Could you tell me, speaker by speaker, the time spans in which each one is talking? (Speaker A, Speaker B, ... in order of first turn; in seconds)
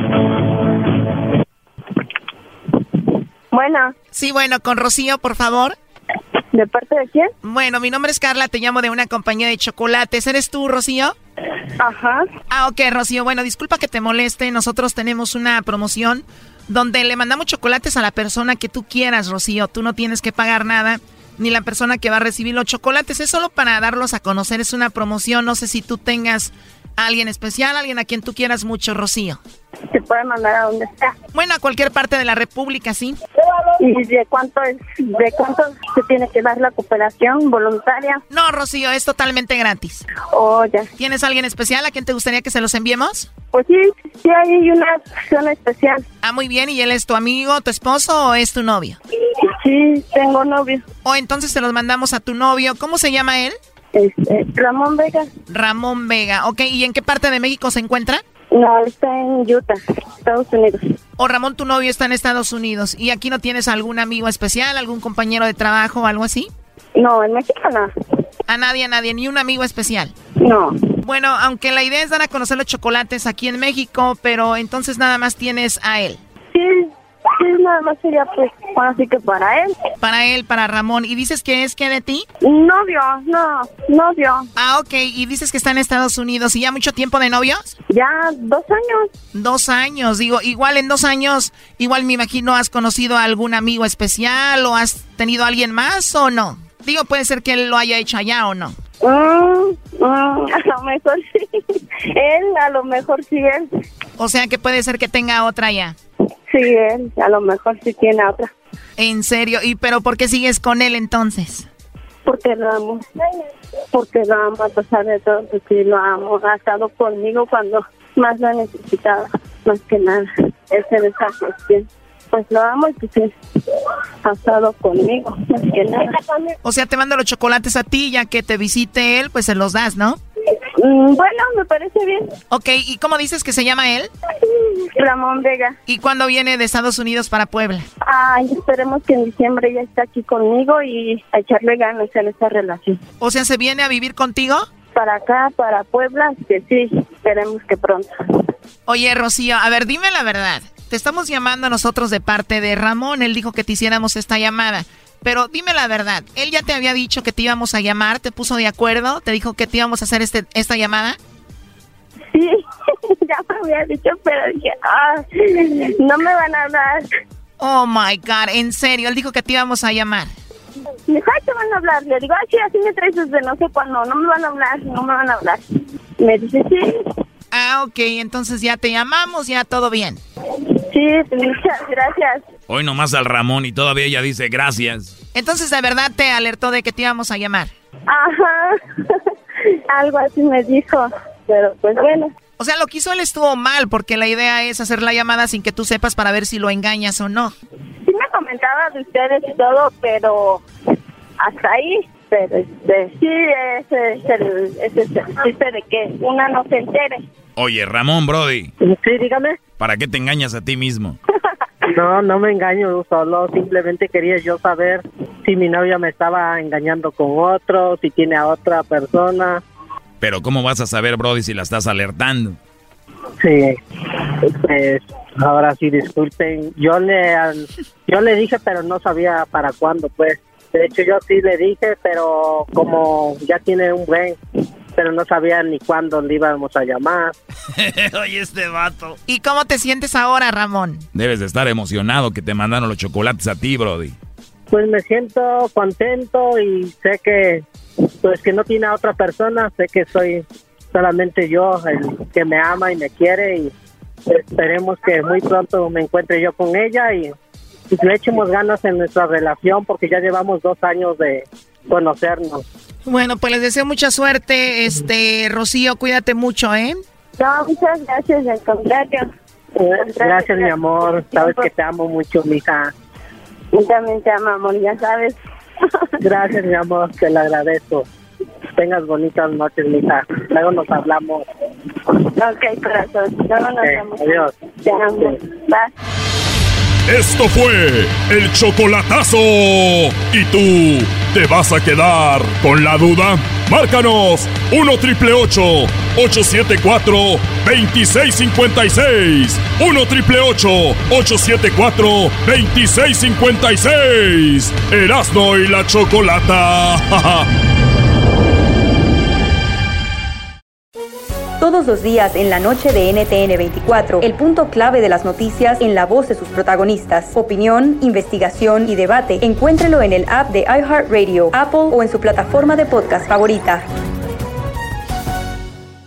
Speaker A: 3.5-3.9, 6.5-7.3, 11.8-12.2, 29.9-31.1, 33.8-38.2, 40.3-40.9, 43.5-46.0, 49.5-50.8, 53.9-55.3, 58.5-60.8, 67.0-67.9, 70.4-70.8, 76.5-79.8, 82.4-84.5, 87.9-89.1, 99.0-103.7, 106.5-108.5, 112.3-113.0, 113.9-126.5, 130.8-132.3, 134.4-135.8, 138.0-143.0, 144.9-148.1, 163.3-167.1, 171.1-175.6, 176.2-176.9, 180.9-182.4, 188.1-189.2, 189.9-192.3, 198.1-200.6, 201.4-207.2, 267.4-269.2, 270.0-271.7, 273.7-276.1, 282.2-285.9
Speaker B: 4.1-5.8, 7.4-11.1, 12.5-29.4, 31.3-33.2, 38.3-40.0, 41.0-43.3, 46.2-49.0, 51.0-53.6, 55.5-58.2, 61.2-66.5, 68.5-70.1, 71.0-76.2, 80.0-82.3, 84.6-87.7, 89.3-98.8, 104.2-106.0, 109.0-111.7, 126.6-130.2, 132.5-134.1, 135.9-137.9, 143.2-144.7, 148.9-161.2, 167.6-170.3, 177.5-180.2, 185.3-187.7, 192.6-197.5, 239.3-241.1, 263.1-267.0
Speaker C: 182.7-185.1, 207.6-208.7, 209.8-211.2, 220.2-222.6, 237.8-239.2, 241.1-244.2
Speaker D: 208.8-209.6, 211.8-219.6, 223.4-223.8, 224.4-234.4, 235.0-237.4, 244.7-247.6, 248.2-253.7, 254.3-257.3, 257.9-262.6, 269.8-272.9, 276.2-278.1, 278.8-281.4, 283.8-284.5
Speaker E: 287.1-307.5
Speaker F: 311.6-323.8